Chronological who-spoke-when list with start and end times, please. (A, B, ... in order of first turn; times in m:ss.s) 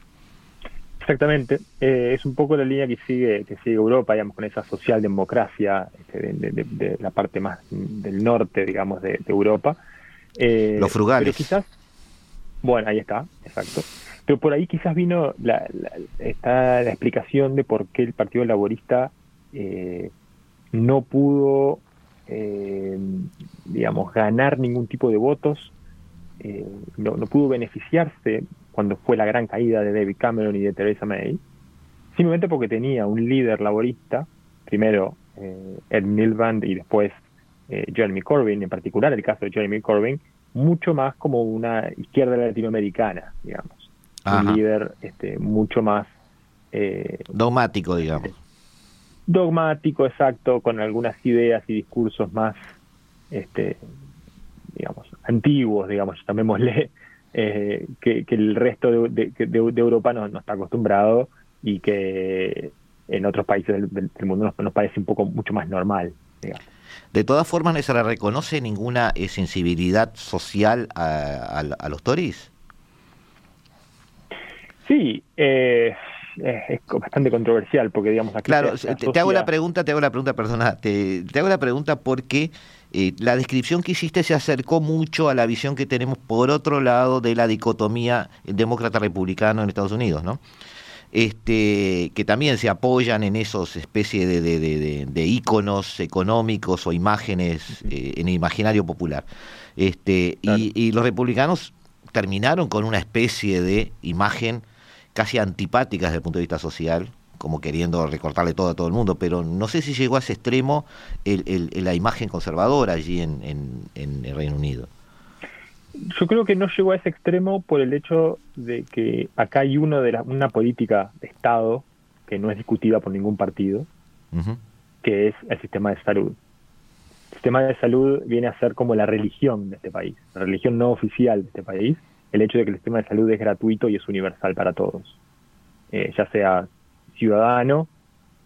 0:01.0-0:09.8 A
0:10.4-0:11.7 A
0:10.8-0:11.5 B
0:12.6-0:20.1 A
0:20.7-0:25.7 A
0:26.4-0:31.4 A
0:32.1-0:37.1 A
0:37.7-0:46.1 A
0:44.2-0:44.6 B
0:46.7-0:47.3 A
0:47.3-0:48.3 B
0:49.3-0:52.6 A
0:53.3-0:53.9 A
0:54.7-1:06.6 A
1:07.1-1:12.5 B
1:14.8-1:19.5 A
1:18.5-1:30.4 B
1:31.1-1:39.2 B
1:39.8-1:44.6 B
1:45.1-1:54.9 B
1:56.0-2:03.9 A
2:04.3-2:04.6 B
2:05.0-2:06.4 A
2:07.3-2:15.2 A
2:15.9-2:17.9 A